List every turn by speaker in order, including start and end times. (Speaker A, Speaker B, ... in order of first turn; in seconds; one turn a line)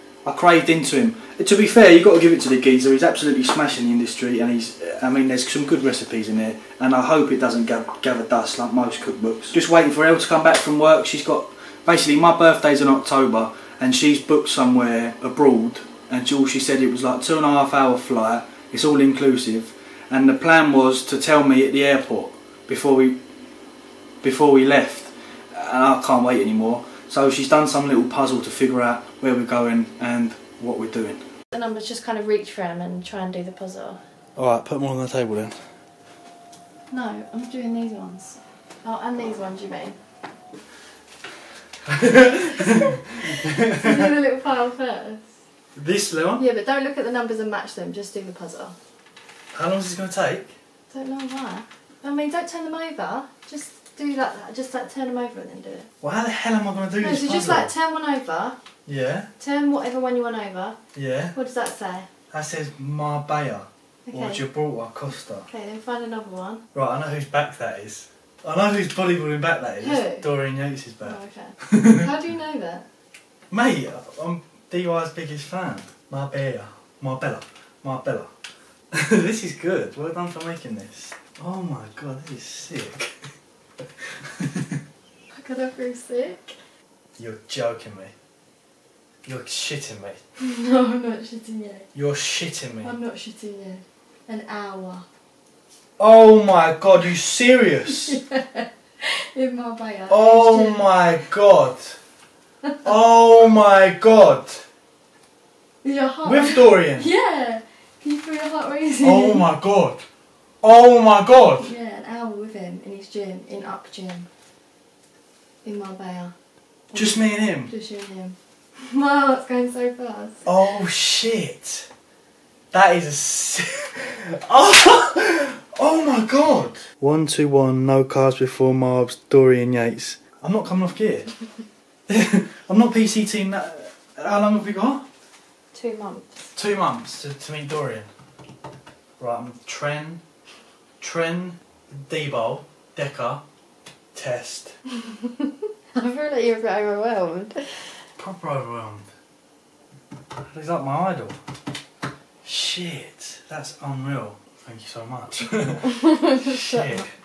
Speaker A: 0.2-23.2
Speaker A: 24.2-31.2
Speaker B: 31.5-34.0
Speaker A: 34.4-35.6
Speaker B: 36.9-40.0
Speaker A: 41.9-44.1
Speaker B: 42.2-45.2
Speaker A: 45.8-46.4
Speaker B: 46.4-48.7
Speaker A: 49.5-50.5
Speaker B: 50.9-55.9
Speaker A: 56.0-57.7
Speaker B: 57.0-58.6
Speaker A: 58.9-59.3
Speaker B: 59.4-60.8
Speaker A: 60.9-61.4
Speaker B: 61.3-62.1
Speaker A: 62.3-65.5
Speaker B: 64.0-64.4
Speaker B: 65.5-66.6
Speaker A: 66.7-72.1
Speaker B: 69.8-70.2
Speaker B: 71.0-72.8
Speaker A: 73.5-78.3
Speaker A: 78.9-83.1
Speaker A: 84.0-84.8
Speaker B: 85.3-86.6
Speaker A: 87.2-88.1
Speaker A: 89.2-90.2
Speaker B: 90.4-91.9
Speaker A: 91.9-92.9
Speaker B: 92.8-95.0
Speaker A: 96.0-98.2
Speaker B: 97.9-100.8
Speaker A: 100.1-102.0
Speaker A: 102.8-104.6
Speaker B: 105.8-109.5
Speaker A: 106.2-107.1
Speaker A: 109.0-110.0
Speaker A: 110.6-111.7
Speaker B: 111.6-114.3
Speaker B: 115.6-116.3
Speaker B: 116.9-120.5
Speaker A: 116.9-117.7
Speaker A: 120.4-121.9
Speaker A: 122.7-131.3
Speaker A: 132.1-135.0
Speaker B: 135.7-136.5
Speaker A: 136.5-138.1
Speaker A: 139.2-140.2
Speaker A: 141.0-143.4
Speaker A: 144.1-144.8
Speaker B: 145.1-147.9
Speaker A: 148.2-149.1
Speaker A: 150.5-151.4
Speaker A: 152.4-157.1
Speaker B: 155.9-157.0